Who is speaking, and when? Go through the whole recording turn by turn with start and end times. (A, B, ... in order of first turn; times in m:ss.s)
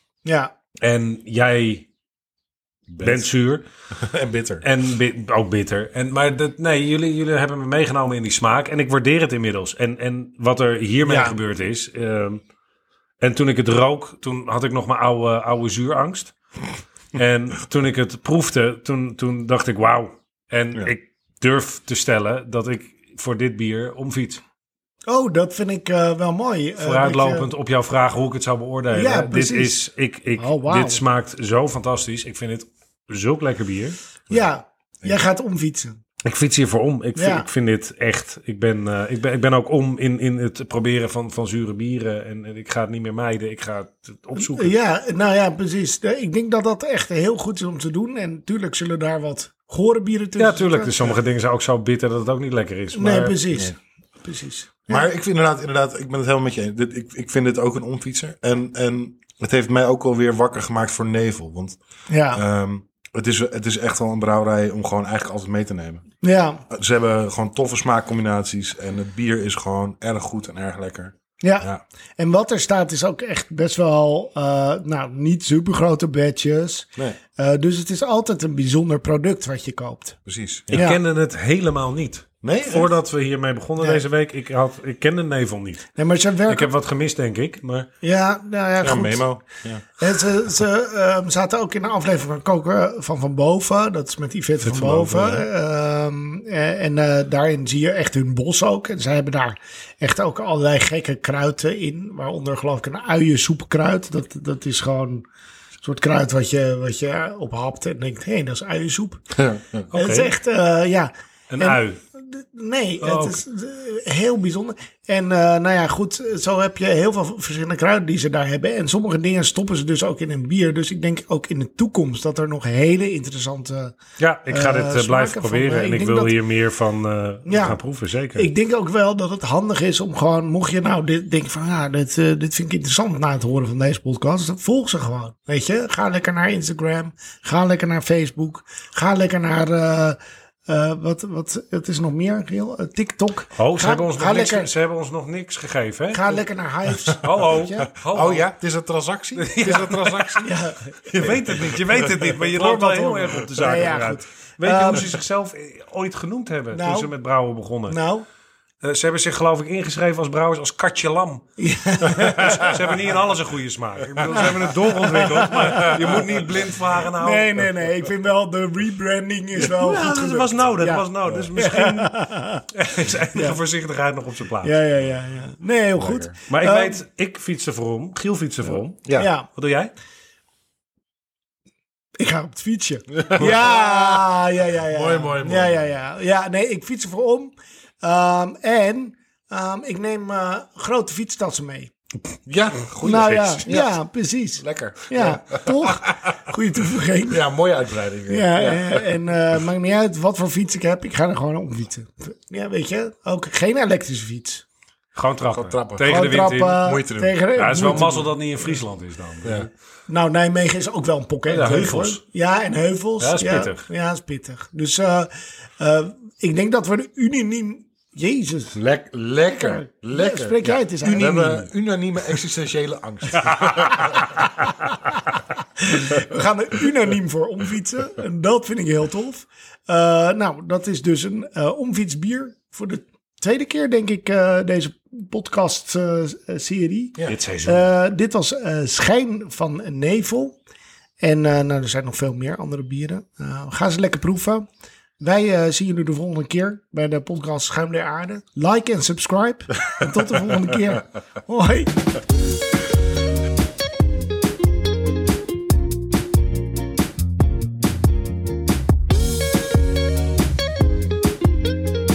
0:00.2-0:00.5 A
0:00.8-0:01.9 B
0:02.9-0:03.3 C
0:03.0-0:03.6 B
0:03.9-0:04.6 C
0:04.6-0:12.4 B
0:11.0-0:11.4 A
0:13.2-0:16.3 B
0:17.1-0:24.4 B
0:25.0-0:27.5 A
0:26.8-0:34.0 B
0:28.9-0:29.8 A
0:30.4-0:31.0 A
0:34.3-0:36.0 A
0:36.2-0:44.7 B
0:37.2-0:37.5 A
0:44.4-0:50.9 A
0:50.4-0:53.4 B
0:52.9-0:55.0 A
0:54.9-1:01.8 C
1:02.1-1:02.4 A
1:02.3-1:06.0 C
1:06.2-1:06.6 A
1:06.7-1:11.8 C
1:11.4-1:20.2 A
1:20.2-1:20.8 C
1:20.7-1:21.0 A
1:20.7-1:25.9 B
1:22.4-1:22.9 C
1:26.0-1:26.7 A
1:26.5-1:27.9 B
1:28.0-1:29.4 A
1:28.8-1:29.8 C
1:30.0-1:45.2 A
1:34.6-1:35.4 B
1:45.8-1:49.2 A
1:49.3-1:49.9 C
1:49.9-1:50.3 B
1:49.9-2:06.3 A
1:51.5-1:52.0 B
1:53.0-1:53.4 B
2:04.2-2:08.5 B
2:07.4-2:07.8 A
2:08.4-2:24.7 A
2:23.6-2:26.4 B
2:26.1-2:27.8 A
2:27.2-2:28.5 B
2:27.8-2:30.6 C
2:29.3-2:30.5 B
2:30.4-2:31.3 A
2:31.1-2:32.3 C
2:31.1-2:38.0 B
2:32.2-2:35.1 A
2:36.7-2:37.1 A
2:37.9-2:38.2 A
2:38.8-2:41.4 B
2:41.6-2:43.0 A
2:42.0-2:47.7 B
2:44.3-2:46.5 A
2:47.0-2:52.7 A
2:49.6-2:52.1 B
2:52.7-2:54.8 B
2:54.6-2:57.0 A
2:56.0-2:56.3 C
2:56.5-2:59.0 B
2:59.0-2:59.3 C
2:59.1-2:59.5 A
2:59.5-2:59.9 B
3:02.2-3:11.9 A
3:03.2-3:04.2 C
3:04.9-3:05.9 C
3:12.4-3:14.0 C
3:13.0-3:17.4 A
3:14.6-3:16.3 C
3:17.3-3:19.1 C
3:18.3-3:24.6 A
3:25.1-3:26.9 B
3:25.5-3:27.3 C
3:26.0-3:28.8 A
3:27.5-3:29.7 B
3:30.1-3:38.8 A
3:31.5-3:32.2 B
3:33.2-3:33.8 B
3:38.7-3:44.2 C
3:39.5-3:41.7 A
3:43.3-3:43.9 B
3:45.8-4:00.6 A
3:57.3-3:57.8 B
4:01.2-4:04.7 A
4:05.2-4:11.9 A